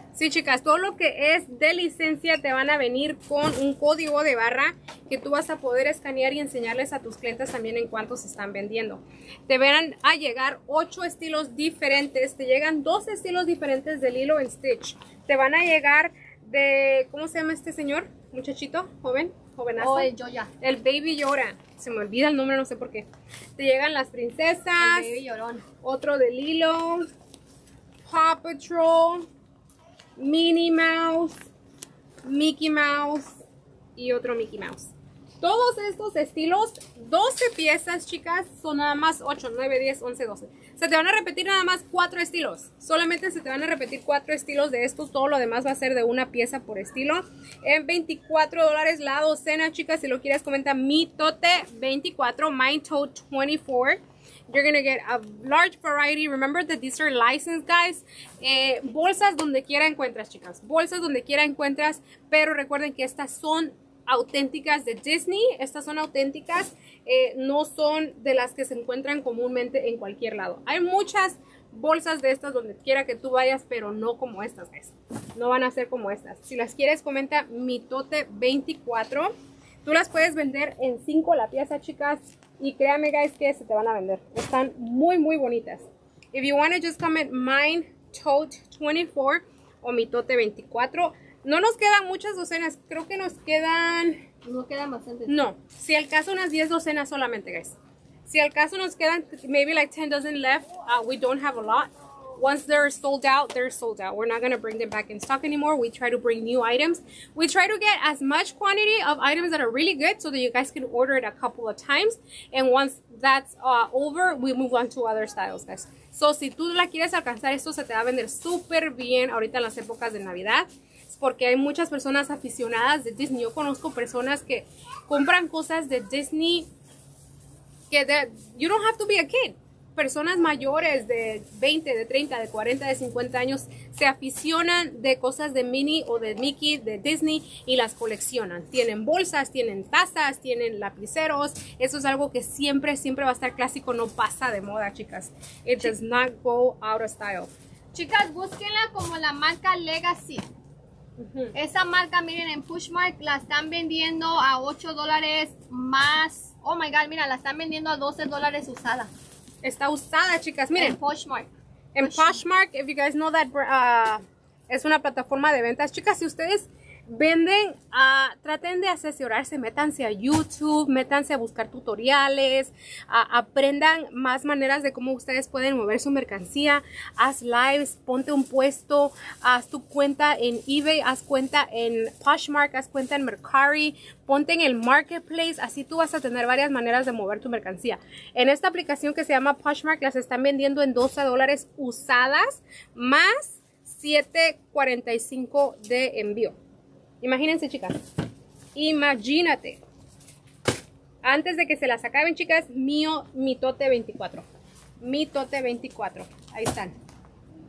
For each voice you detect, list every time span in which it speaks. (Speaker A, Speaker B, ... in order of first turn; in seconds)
Speaker A: 0.1-25.2, 25.8-27.1, 28.1-29.3, 30.2-31.4, 32.2-33.4, 34.0-79.3, 79.8-94.2, 95.3-126.7, 127.9-147.5, 151.2-151.6, 159.6-161.0, 161.9-196.6, 197.2-198.0, 198.8-199.8, 201.2-204.4, 205.0-206.9
Speaker B: 19.8-20.5, 24.8-25.6, 94.5-95.4, 147.9-150.5, 151.6-159.1, 160.8-161.5, 162.0-162.4